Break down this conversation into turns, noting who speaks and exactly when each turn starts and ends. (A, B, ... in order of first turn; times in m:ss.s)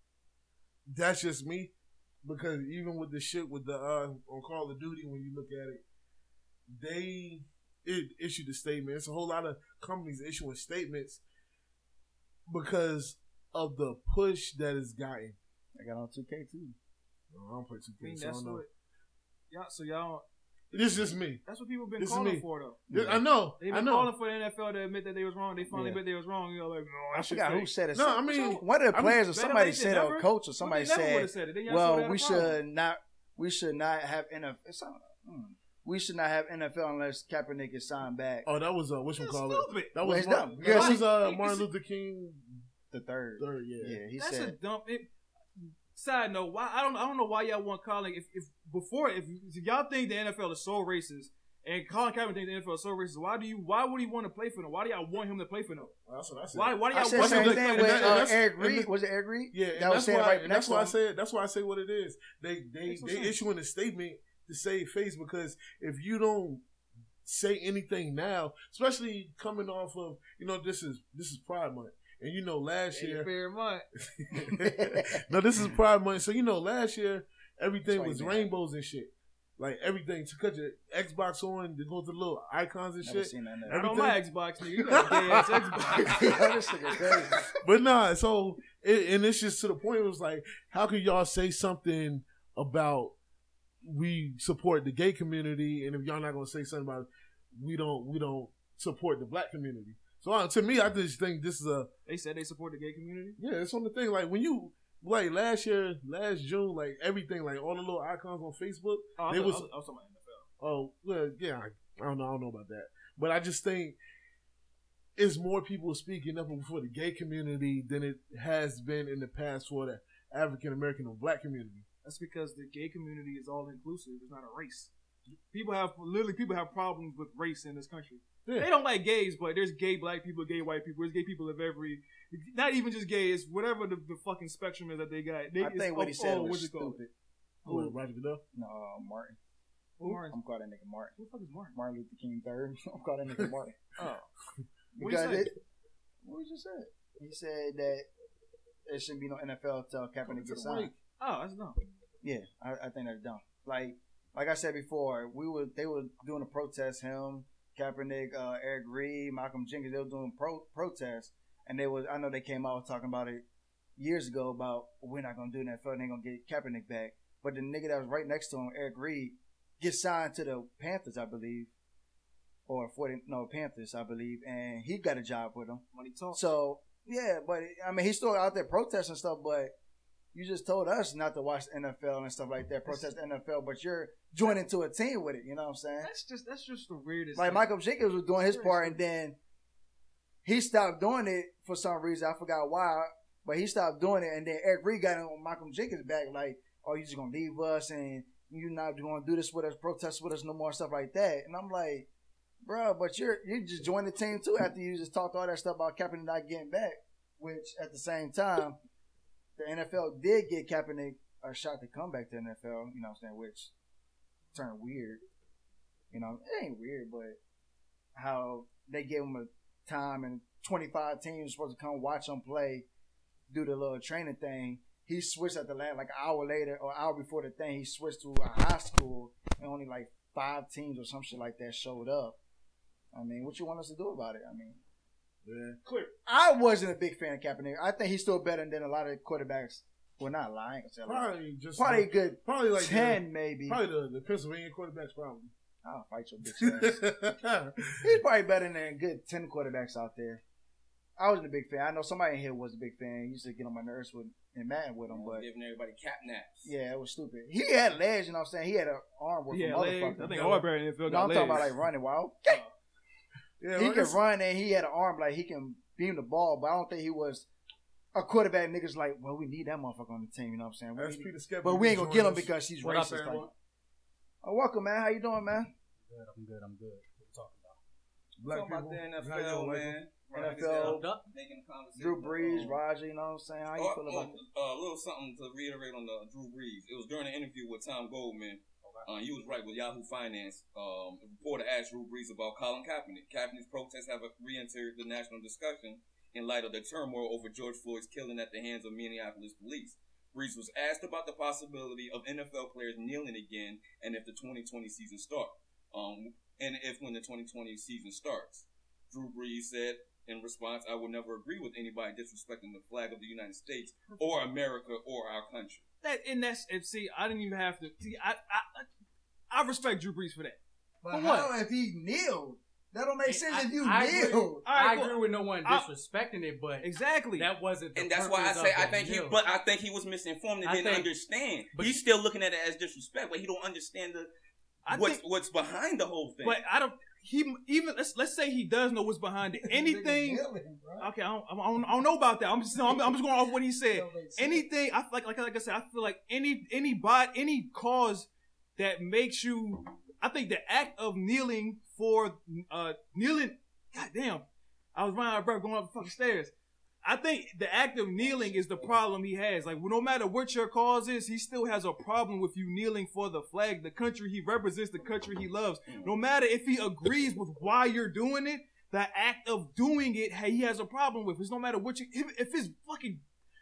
0:00.9-0:01.7 A
0:02.2-0:05.8 A
0:06.7-0:11.2 A
0:12.5-0:15.4 A
0:15.8-0:16.8 B
0:17.3-0:18.6 A
0:18.0-0:18.7 C
0:19.5-0:20.2 C
0:20.7-0:21.4 A
0:21.4-0:22.8 C
0:22.0-0:24.1 A
0:22.9-0:23.2 B
0:23.6-0:27.7 C
0:25.7-0:26.0 B
0:27.1-0:38.5 B
0:27.9-0:29.2 A
0:28.3-0:32.6 C
0:38.4-0:42.5 A
0:39.2-0:40.0 C
0:40.0-0:41.1 B
0:40.6-0:41.7 C
0:42.9-0:44.6 B
0:43.4-0:44.0 A
0:44.2-0:55.9 C
0:56.1-0:58.9 A
0:56.5-0:58.3 C
0:56.9-1:01.0 B
0:59.5-1:06.6 A
1:02.9-1:03.4 C
1:07.2-1:13.3 A
1:12.9-1:13.8 C
1:14.0-1:24.2 A
1:14.5-1:15.2 B
1:17.9-1:18.5 B
1:23.0-1:23.8 B
1:23.7-1:26.2 C
1:24.8-1:26.4 A
1:26.0-1:27.5 B
1:27.6-1:33.2 A
1:33.8-1:41.9 A
1:42.1-1:43.4 C
1:43.4-1:49.7 A
1:49.2-1:50.5 C
1:50.6-1:54.0 A
1:55.2-2:01.8 A
2:02.0-2:04.9 C
2:05.5-2:17.0 C
2:08.4-2:08.7 A
2:15.6-2:17.1 B
2:17.6-2:18.0 C
2:17.6-2:18.4 A
2:18.5-2:19.4 B
2:20.0-2:20.4 C
2:20.0-2:21.2 B
2:21.2-2:21.8 C
2:21.7-2:23.8 B
2:24.0-2:24.3 C
2:25.0-2:25.5 B
2:25.0-2:25.5 C
2:26.2-2:28.1 B
2:28.9-2:30.9 B
2:30.3-2:31.0 A
2:31.2-2:31.8 C
2:32.2-2:43.4 B
2:44.0-2:51.7 B
2:52.7-2:59.7 B
2:55.9-2:56.4 C
3:00.3-3:06.1 B
3:06.0-3:07.7 C
3:07.4-3:09.4 B
3:08.4-3:09.0 C
3:10.4-3:22.1 B
3:22.6-3:28.8 B
3:29.6-3:33.7 B
3:34.5-3:35.2 B
3:36.1-3:37.4 B
3:38.2-3:42.9 B
3:43.5-3:52.4 B
3:53.1-3:54.8 B
3:55.4-3:56.1 A
3:56.3-4:03.8 B
4:01.0-4:05.5 A
4:05.8-4:07.0 B
4:06.5-4:08.1 A
4:08.0-4:10.4 B
4:11.2-4:15.4 B
4:15.1-4:16.7 D
4:16.6-4:22.6 B
4:19.5-4:21.7 C
4:22.5-4:22.7 C
4:23.6-4:24.2 A
4:23.8-4:27.5 B
4:28.2-4:33.5 B
4:31.0-4:32.6 A
4:32.8-4:33.5 E
4:34.4-4:35.7 B
4:36.1-4:37.8 E
4:38.4-4:40.0 A
4:38.5-4:42.8 D
4:40.3-4:41.1 B
4:40.8-4:41.2 E
4:42.0-4:44.4 B
4:43.8-5:15.8 D
5:16.0-5:18.9 C
5:19.5-5:20.6 C
5:21.0-5:24.6 B
5:21.1-5:21.5 E
5:23.2-5:29.4 E
5:24.6-5:25.9 C
5:26.8-5:27.5 C
5:28.0-5:34.3 D
5:30.6-5:31.1 E
5:31.8-5:32.0 E
5:34.9-5:35.2 C
5:34.9-5:36.6 D
5:36.4-5:40.4 C
5:39.6-5:41.1 B
5:41.0-5:54.4 C
5:43.9-5:44.6 B
5:55.0-5:56.5 C
5:57.0-6:13.2 C